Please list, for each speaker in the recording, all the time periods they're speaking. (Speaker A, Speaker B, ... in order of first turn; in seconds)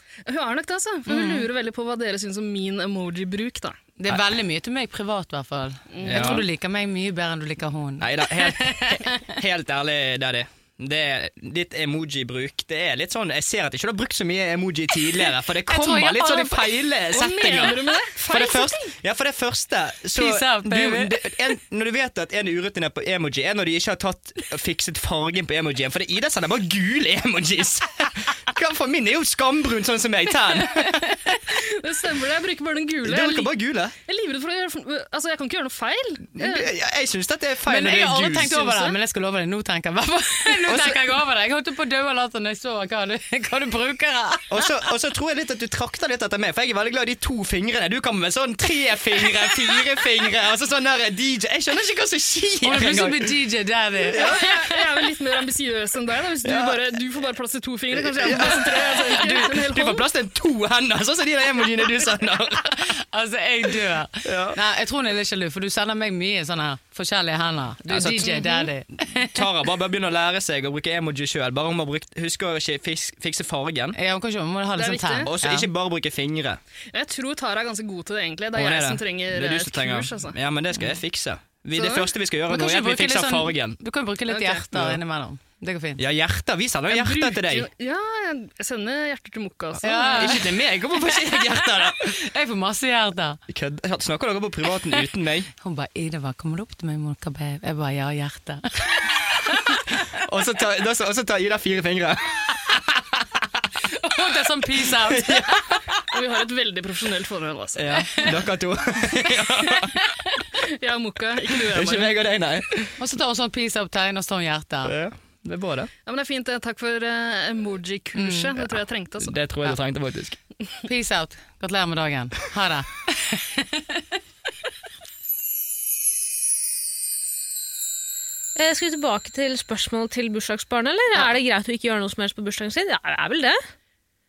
Speaker A: 0.2-3.8, 5.9-6.4, 17.1-18.9, 31.5-33.5, 34.0-36.7, 38.4-39.0, 54.1-60.1, 68.2-68.7, 74.8-75.3, 76.9-80.3, 81.7-82.1, 84.3-84.6, 86.9-90.4, 106.1-108.2, 110.7-112.2, 116.0-119.3
Speaker B: 1.1-1.4, 4.0-9.3, 15.1-17.7, 20.1-21.3, 30.7-31.3, 37.6-44.7, 52.6-54.7, 62.7-69.5, 73.9-75.7, 82.5-86.0, 89.8-93.4, 95.6-98.9, 104.0-105.8, 108.1-108.4, 113.0-114.9, 118.2-118.5, 120.8-124.0
Speaker C: 6.0-6.5, 8.0-31.1, 33.0-33.9, 36.3-38.6, 40.7-41.0, 44.5-53.3, 54.1-54.4, 56.4-56.8, 57.9-62.9, 64.2-64.6, 67.9-68.6, 69.3-74.0, 75.2-76.6, 78.5-83.8, 86.0-87.7, 89.9-92.1, 93.5-95.5, 100.2-102.9, 105.0-105.8, 107.8-110.0, 111.5-113.0, 114.8-115.9, 119.2-120.4
Speaker D: 128.6-133.6